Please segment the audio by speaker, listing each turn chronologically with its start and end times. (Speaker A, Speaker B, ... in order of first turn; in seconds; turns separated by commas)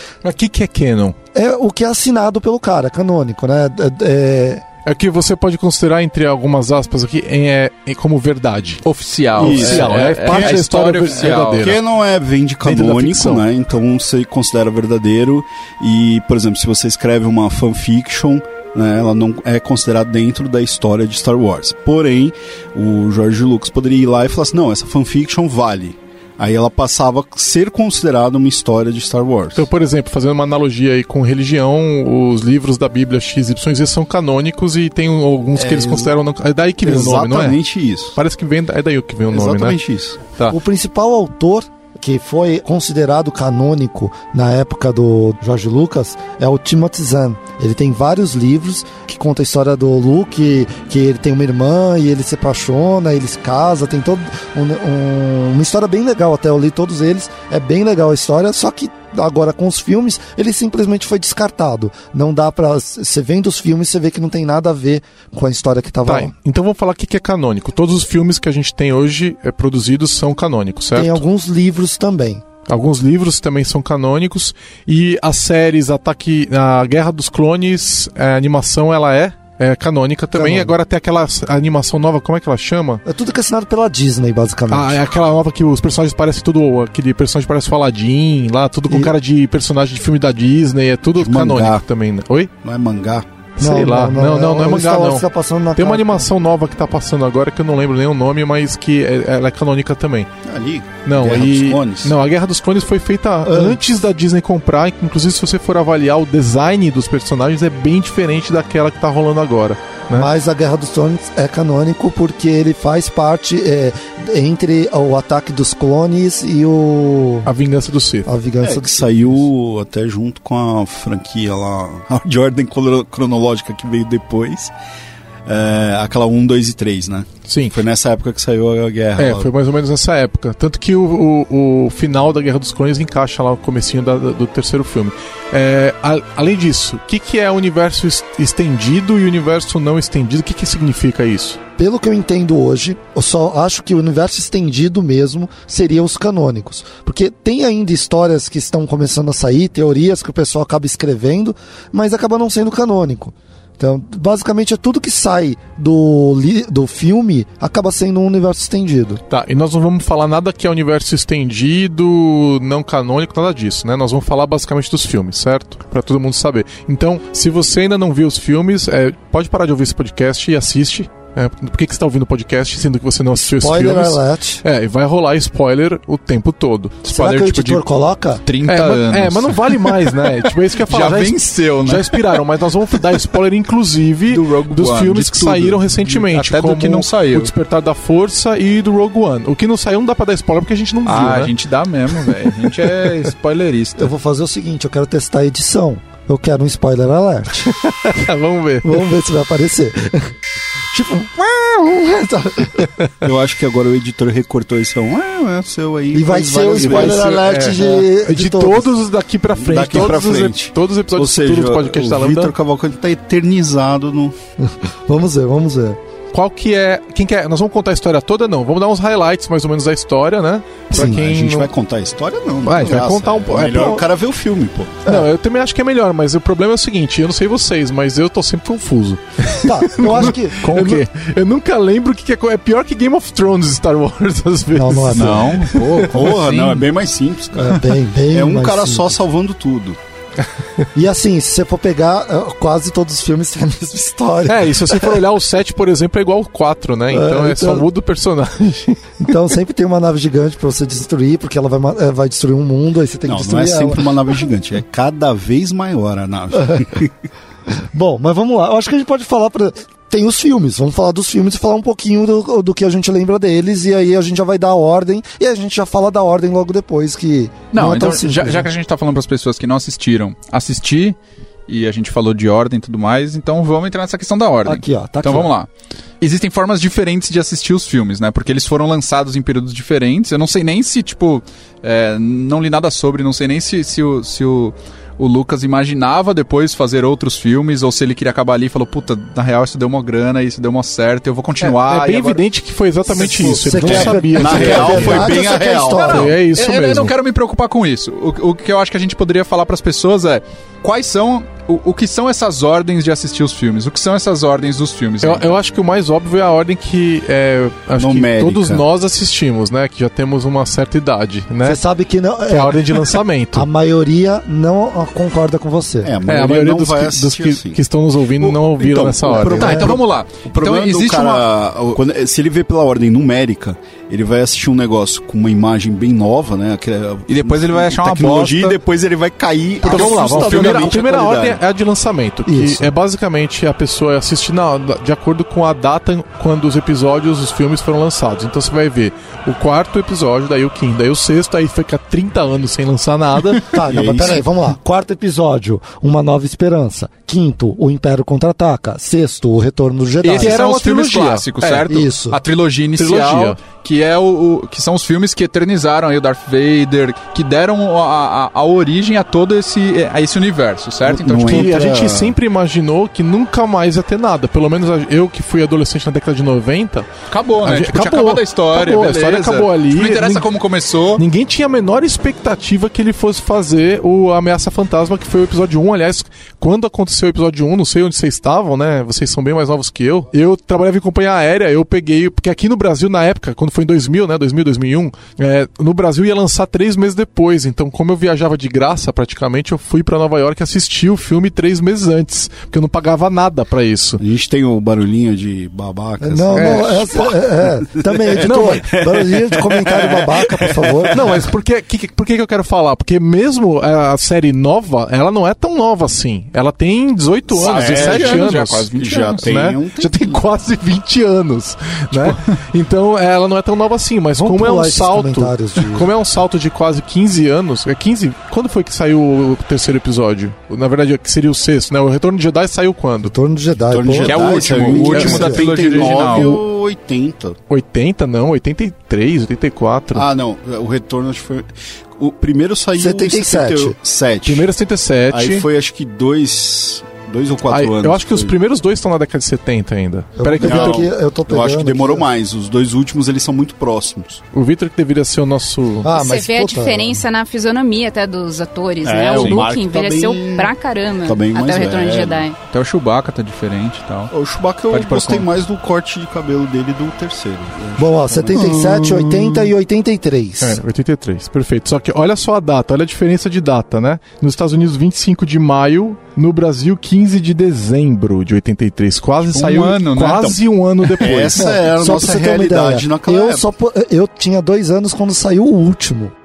Speaker A: 0.2-1.2, Speaker B: 1.3-4.6, Speaker A: 4.9-8.8, Speaker C: 8.8-11.8, Speaker A: 9.4-11.8, Speaker D: 9.4-10.0, Speaker B: 10.2-10.6, Speaker D: 11.3-29.7, Speaker A: 12.6-13.5, Speaker A: 29.6-37.6, Speaker D: 35.5-36.1, Speaker D: 36.8-38.2, Speaker A: 38.1-39.8, Speaker D: 39.3-40.2, Speaker B: 40.5-66.3, Speaker A: 66.0-71.2, Speaker B: 71.0-72.4, Speaker A: 72.7-83.0, Speaker B: 80.3-80.8, Speaker B: 83.0-85.0, Speaker A: 84.7-92.5, Speaker D: 91.2-91.8, Speaker D: 92.6-93.2, Speaker A: 93.6-100.3, Speaker B: 93.6-96.3, Speaker D: 100.5-102.1, Speaker A: 101.0-110.3, Speaker B: 103.4-103.8, Speaker B: 110.1-117.5, Speaker A: 117.5-118.3, Speaker B: 118.3-119.1, Speaker D: 118.6-124.7, Speaker D: 125.5-129.5, Speaker A: 127.5-127.8, Speaker A: 129.2-141.6, Speaker B: 141.8-159.2, Speaker A: 159.3-177.8, Speaker B: 173.4-174.6, Speaker B: 177.1-178.4, Speaker C: 178.5-182.4, Speaker A: 178.7-191.5, Speaker C: 184.3-187.5, Speaker C: 191.1-194.1, Speaker A: 192.2-192.7, Speaker B: 194.0-197.7, Speaker A: 197.7-199.0, Speaker B: 198.8-200.3, Speaker B: 200.9-202.9, Speaker D: 203.2-207.2, Speaker B: 206.1-208.9, Speaker A: 206.8-212.5, Speaker D: 209.5-214.3, Speaker B: 214.6-216.0, Speaker A: 216.3-221.7, Speaker B: 220.9-221.2, Speaker D: 220.9-225.0, Speaker A: 222.6-224.1, Speaker B: 222.8-223.1, Speaker A: 225.1-236.8, Speaker B: 229.5-231.1, Speaker B: 234.7-235.6, Speaker C: 235.1-236.8, Speaker D: 236.1-240.0, Speaker B: 237.6-239.2, Speaker B: 240.9-245.2, Speaker A: 244.4-249.1, Speaker B: 247.1-247.9, Speaker B: 249.2-254.4, Speaker D: 253.3-257.1, Speaker B: 257.9-268.7, Speaker C: 267.7-271.2, Speaker C: 271.7-275.7, Speaker B: 274.6-275.5, Speaker C: 276.2-292.4, Speaker A: 291.6-297.1, Speaker B: 293.4-296.4, Speaker D: 293.4-296.3, Speaker C: 295.9-305.5, Speaker A: 305.2-311.8, Speaker D: 308.0-308.8, Speaker B: 311.6-316.1, Speaker A: 312.5-313.7, Speaker D: 316.0-317.8, Speaker A: 316.3-319.9, Speaker D: 318.4-331.6, Speaker C: 319.4-321.5, Speaker B: 319.4-319.9, Speaker C: 327.3-328.8, Speaker C: 329.8-331.0, Speaker A: 329.8-343.7, Speaker B: 332.5-332.9, Speaker B: 343.7-350.6, Speaker D: 343.9-344.4, Speaker A: 350.2-351.9, Speaker C: 350.3-361.9, Speaker B: 351.9-352.4, Speaker A: 353.0-353.6, Speaker D: 361.1-362.4, Speaker A: 361.5-367.1, Speaker C: 367.3-371.2, Speaker A: 367.6-370.5, Speaker A: 371.2-394.2, Speaker D: 394.2-397.4, Speaker B: 396.2-401.2, Speaker A: 396.5-397.0, Speaker D: 398.1-401.4, Speaker A: 398.4-398.9, Speaker A: 401.1-423.3, Speaker C: 407.5-409.5, Speaker D: 407.6-410.4, Speaker B: 414.4-416.1, Speaker B: 423.2-425.5, Speaker D: 423.9-427.6, Speaker C: 424.2-426.6, Speaker A: 425.0-426.6, Speaker A: 427.7-430.3, Speaker D: 430.1-434.7, Speaker B: 433.0-434.0, Speaker A: 434.4-435.7, Speaker D: 435.3-438.6, Speaker A: 437.7-441.1, Speaker B: 440.4-442.3, Speaker D: 440.6-444.4, Speaker A: 444.5-446.1, Speaker B: 446.0-447.2, Speaker E: 446.1-452.6, Speaker D: 449.0-450.7, Speaker C: 449.3-449.7, Speaker D: 451.2-452.4, Speaker C: 452.7-454.3, Speaker D: 454.3-459.7, Speaker C: 454.9-455.5, Speaker B: 458.0-460.8, Speaker A: 460.6-471.7, Speaker C: 469.4-470.6, Speaker D: 471.1-473.6, Speaker B: 471.5-476.3